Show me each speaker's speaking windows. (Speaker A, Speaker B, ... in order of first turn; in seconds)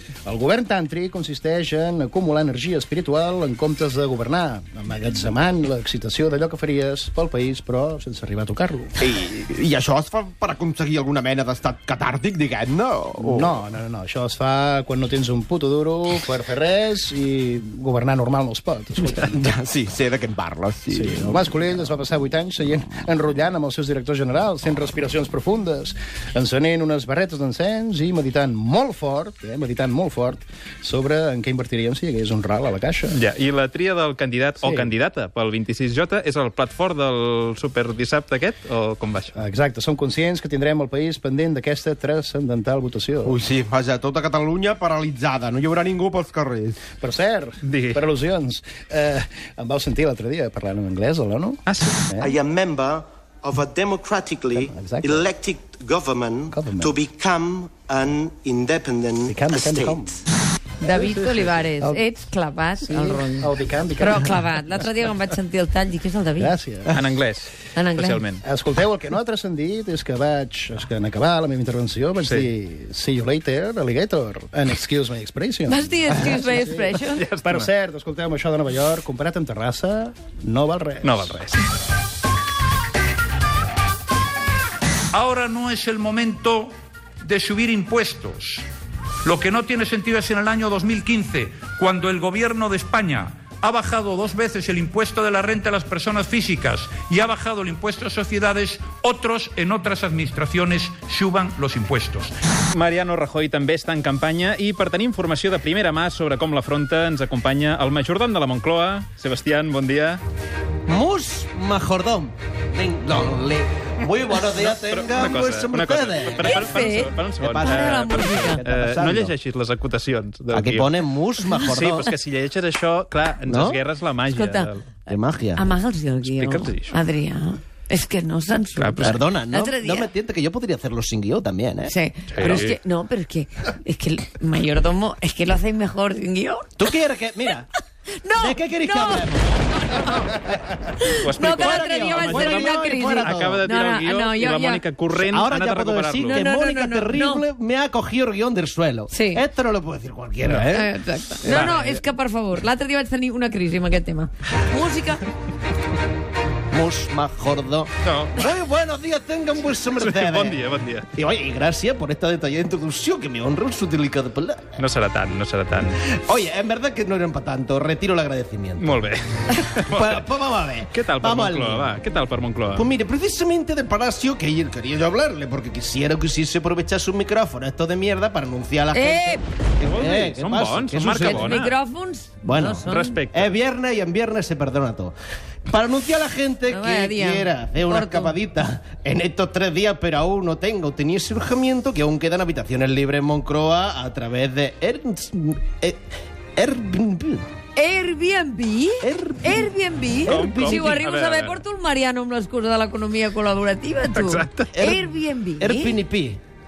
Speaker A: 0.2-8.9, 13.2-19.5, 20.9-33.2, 34.6-34.9, 39.4-43.4, 47.0-52.3, 54.5-55.2, 56.5-56.9, 59.2-60.1, 63.0-64.4, 66.4-67.0, 68.4-81.4
Speaker B: 9.0-13.6, 19.3-21.1, 43.2-46.8
Speaker C: 33.1-39.4, 47.6-48.1, 51.7-52.0, 66.9-68.4, 77.1-77.7, 81.0-81.6, 102.7-110.2, 114.4-121.1, 121.6-124.8, 126.2-126.9, 128.8-129.2, 132.3-132.8, 141.2-146.5, 150.4-150.8, 151.4-152.0, 158.0-158.5, 159.9-161.1, 164.8-166.0, 168.8-172.9, 179.8-181.7, 182.9-183.5, 200.2-201.6, 204.1-204.8
Speaker D: 52.2-60.0
Speaker E: 60.8-66.5, 67.7-68.2, 75.7-77.2, 116.4-118.6, 121.5-122.1, 124.3-124.7, 125.5-130.1, 131.8-136.9, 138.1-140.4, 141.0-144.8, 146.3-147.4, 149.1-149.4, 150.7-155.2, 178.9-179.4, 181.2-183.2, 186.7-188.3, 197.8-206.0
Speaker F: 85.1-88.6, 89.2-102.3
Speaker G: 110.9-116.5, 117.4-119.3, 120.5-122.0, 123.5-123.8, 125.1-125.6, 129.0-131.9, 136.8-137.7, 138.4-139.6, 141.7-143.5, 145.3-150.9, 156.7-160.6, 161.1-164.7, 166.1-168.9, 169.9-171.8, 172.7-181.4, 182.4-182.8, 183.3-185.1, 185.7-197.4, 199.0-199.7, 204.7-205.0, 205.6-206.4